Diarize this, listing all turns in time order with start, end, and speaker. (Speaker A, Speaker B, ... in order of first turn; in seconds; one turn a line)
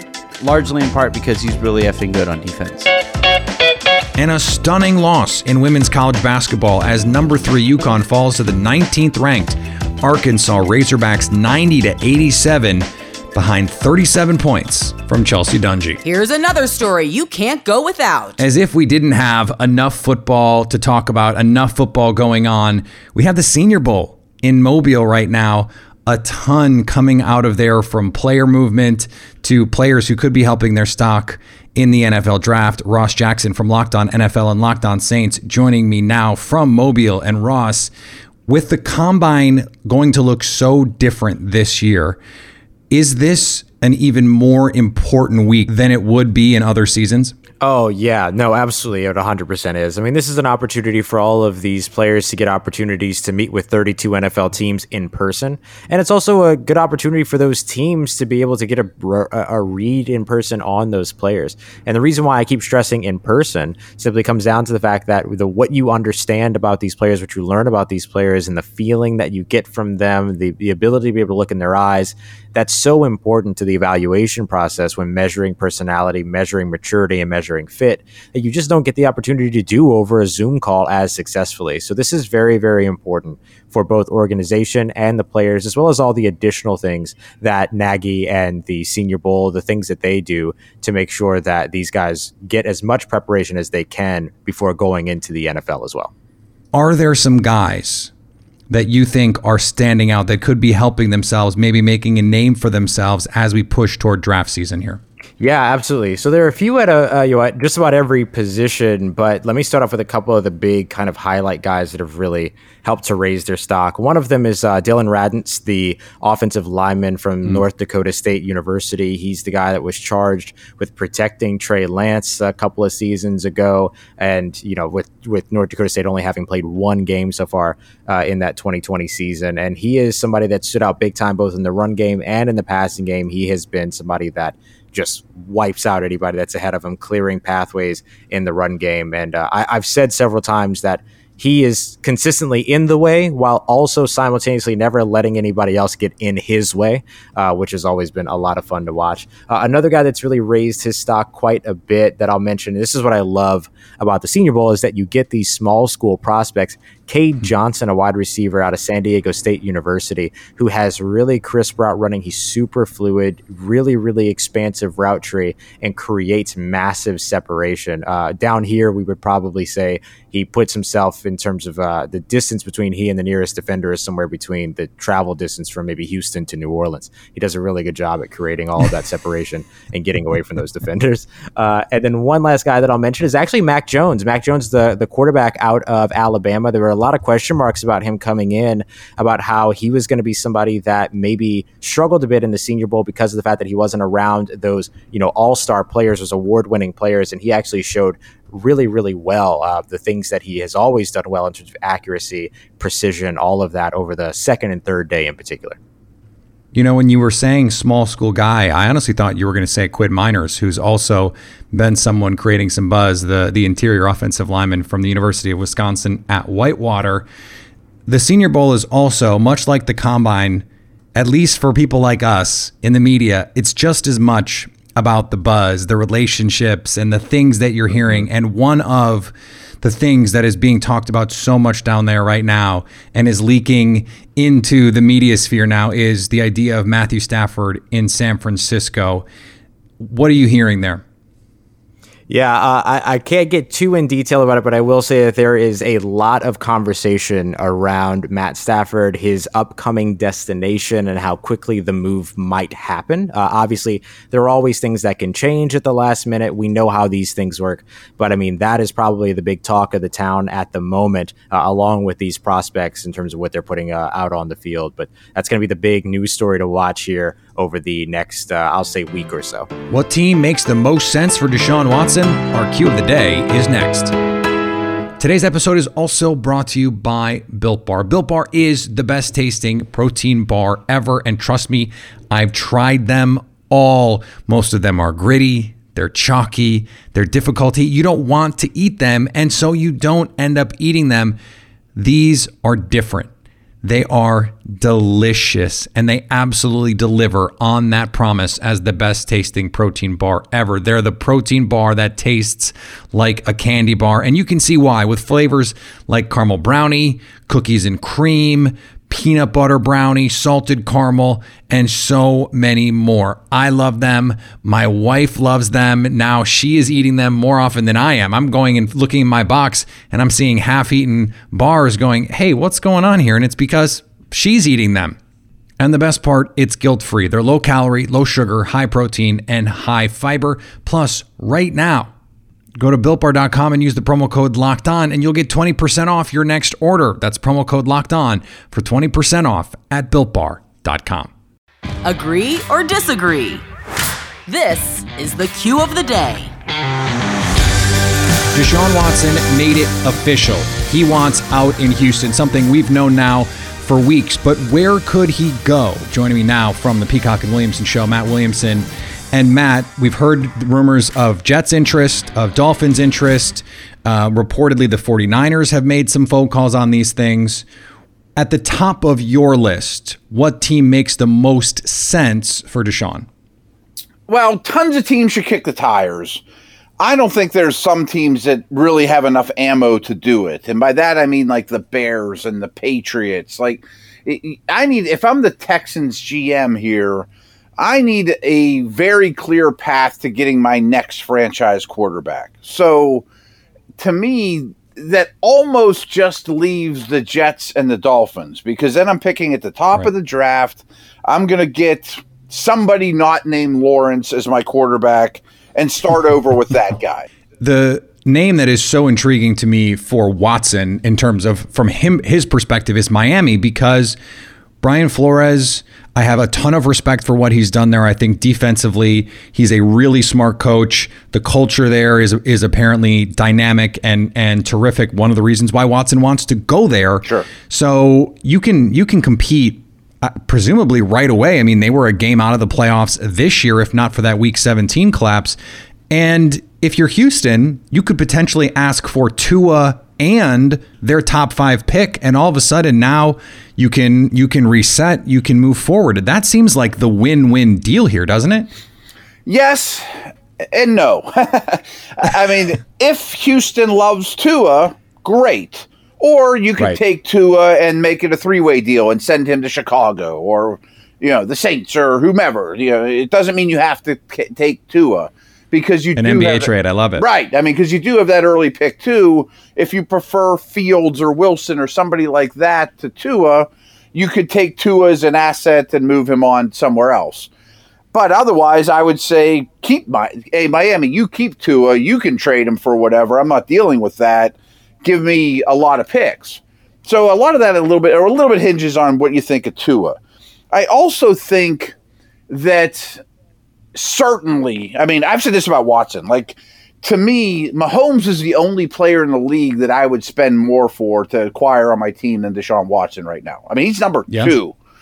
Speaker A: 0.4-2.9
Speaker B: 4.2-16.0
Speaker C: 16.0-18.4
Speaker B: 18.4-37.9
Speaker B: 38.5-42.2
Speaker B: 42.9-47.4
Speaker D: 47.6-96.1
Speaker B: 96.7-98.1
Speaker B: 98.7-105.0
Speaker D: 105.4-205.8
Speaker B: 206.7-217.3
Speaker B: 218.1-239.3
Speaker B: 240.0-241.0
Speaker D: 242.3-269.7
Speaker B: 269.9-274.1
Speaker B: 275.2-291.4
Speaker B: 292.0-293.3
Speaker B: 293.8-325.2
Speaker B: 325.8-332.1
Speaker B: 332.8-341.3
Speaker C: 342.0-343.6
Speaker C: 344.5-346.5
Speaker B: 348.5-367.7
Speaker B: 368.4-373.3
Speaker E: 374.3-376.4
Speaker E: 377.0-387.3
Speaker E: 387.8-393.2
Speaker E: 394.0-407.3
Speaker B: 407.6-414.2
Speaker B: 414.8-435.6
Speaker E: 427.2-427.5
Speaker B: 436.1-448.7
Speaker E: 449.5-450.1
Speaker E: 450.7-477.5
Speaker B: 466.2-467.2
Speaker E: 478.1-490.2
Speaker E: 490.7-491.9
Speaker E: 492.5-493.2
Speaker E: 493.9-504.8
Speaker B: 504.3-504.6